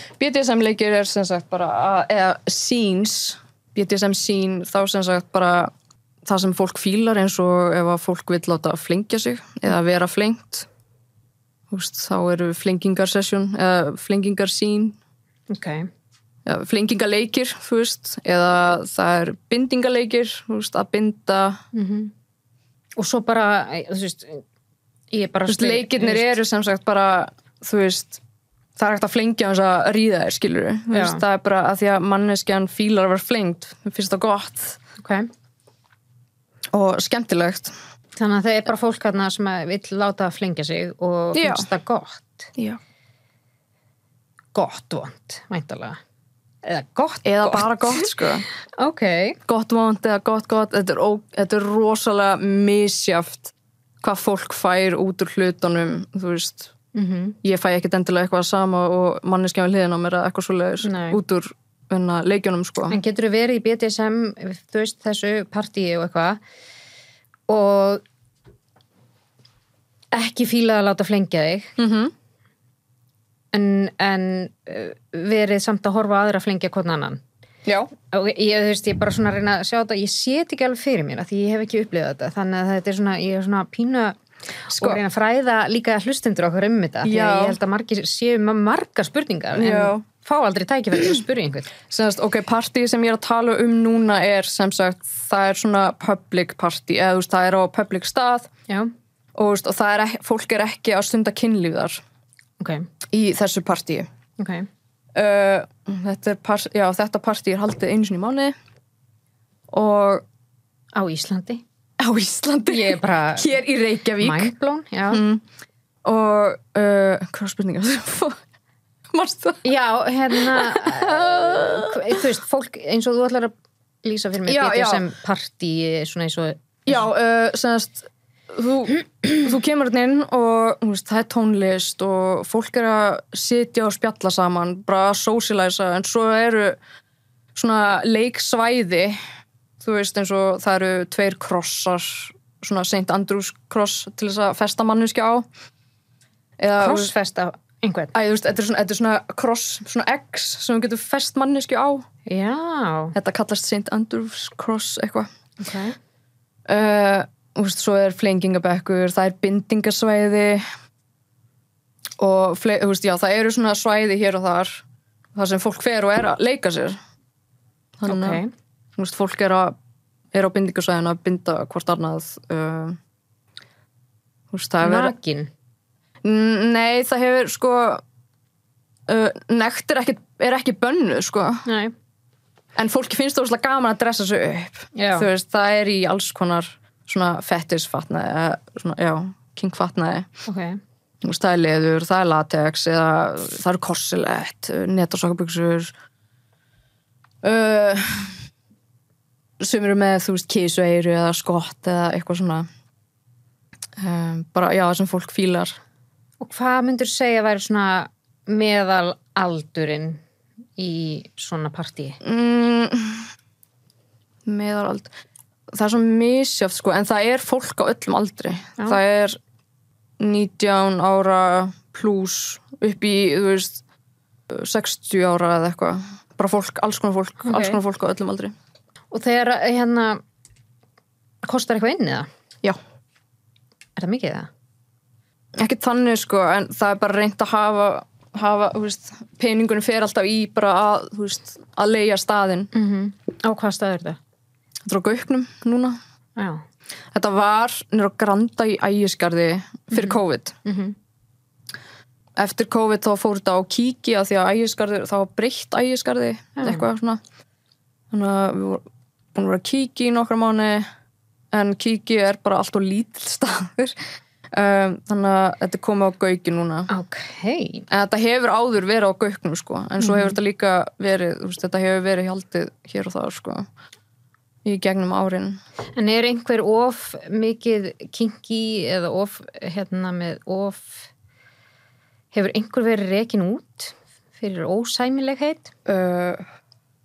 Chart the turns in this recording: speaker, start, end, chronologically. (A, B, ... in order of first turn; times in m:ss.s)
0:00.2-0:05.7 A
0:06.2-0:10.7 A
0:11.7-0:15.0 A
0:15.5-0:15.9 B
0:16.4-0:21.6 A
0:21.7-0:22.1 B
0:23.0-0:24.4 B
0:25.1-0:26.4 B
0:25.5-0:28.2 A
0:28.8-0:34.8 A
0:30.9-0:31.2 B
0:35.0-0:35.3 B
0:36.7-0:37.7 A
0:38.2-0:42.5 B
0:41.3-0:41.7 A
0:44.5-0:46.0 B
0:46.6-0:48.0 B
0:47.2-0:48.5 A
0:48.8-0:49.4 B
0:49.5-0:56.7 A
0:56.9-0:57.4 B
0:57.4-1:03.0 A
1:00.8-1:01.2 B
1:02.9-1:06.4 B
1:07.5-1:08.0 B
1:10.1-1:11.7 B
1:11.8-1:12.1 A
1:13.5-1:17.2 B
1:17.6-1:17.9 A
1:18.0-1:31.7 B
1:24.7-1:25.0 A
1:27.0-1:27.6 A
1:29.6-1:30.0 A
1:31.9-1:38.5 A
1:39.3-1:42.0 A
1:42.6-1:42.9 B
1:43.1-1:44.1 A
1:44.4-1:44.7 B
1:45.1-1:48.5 A
1:49.7-1:50.2 A
1:50.9-1:51.6 B
1:52.0-1:54.5 A
1:52.7-1:53.6 B
1:54.2-1:55.2 B
1:55.1-1:55.4 A
1:56.0-1:58.4 A
1:59.1-1:59.7 A
1:59.6-2:03.5 B
2:00.3-2:02.2 A
2:04.0-2:07.0 B
2:04.4-2:05.0 A
2:06.8-2:16.8 A
2:17.5-2:19.2 A
2:19.8-2:25.5 A
2:26.6-2:27.1 A
2:26.8-2:28.1 B
2:28.1-2:32.0 A
2:32.2-2:33.1 B
2:33.1-2:35.3 A
2:35.6-2:35.9 B
2:36.7-2:40.6 A
2:42.2-2:44.8 A
2:45.4-2:47.0 A
2:48.0-2:48.4 A
2:48.1-2:48.5 B
2:49.0-2:49.7 A
2:50.3-2:53.0 A
2:54.5-2:55.1 A
2:54.8-2:55.5 B
2:56.2-2:58.0 A
2:59.1-3:01.6 A
3:01.6-3:01.9 B
3:02.8-3:10.3 A
3:04.9-3:05.3 B
3:10.5-3:10.8 B
3:11.2-3:15.9 A
3:17.4-3:18.3 A
3:19.6-3:22.6 A
3:24.0-3:25.8 A
3:26.4-3:30.2 B
3:30.8-3:32.2 B
3:32.2-3:33.3 A
3:34.4-3:35.1 A
3:35.7-3:39.4 A
3:40.2-3:43.8 A
3:44.5-3:48.5 A
3:47.4-3:47.8 B
3:49.1-3:50.2 B
3:51.4-3:52.3 B
3:54.0-3:54.5 B
3:55.6-4:02.7 A
4:02.7-4:04.2 B
4:04.9-4:06.0 A
4:06.4-4:06.6 B
4:07.1-4:10.6 A
4:09.9-4:11.0 B
4:12.4-4:17.2 A
4:16.6-4:16.8 B
4:18.1-4:20.8 A
4:21.5-4:24.0 A
4:24.5-4:26.9 A
4:26.9-4:27.9 B
4:27.9-4:33.6 A
4:30.0-4:30.4 B
4:34.6-4:35.6 A
4:36.0-4:41.1 B
4:42.3-4:45.7 B
4:45.8-4:46.4 A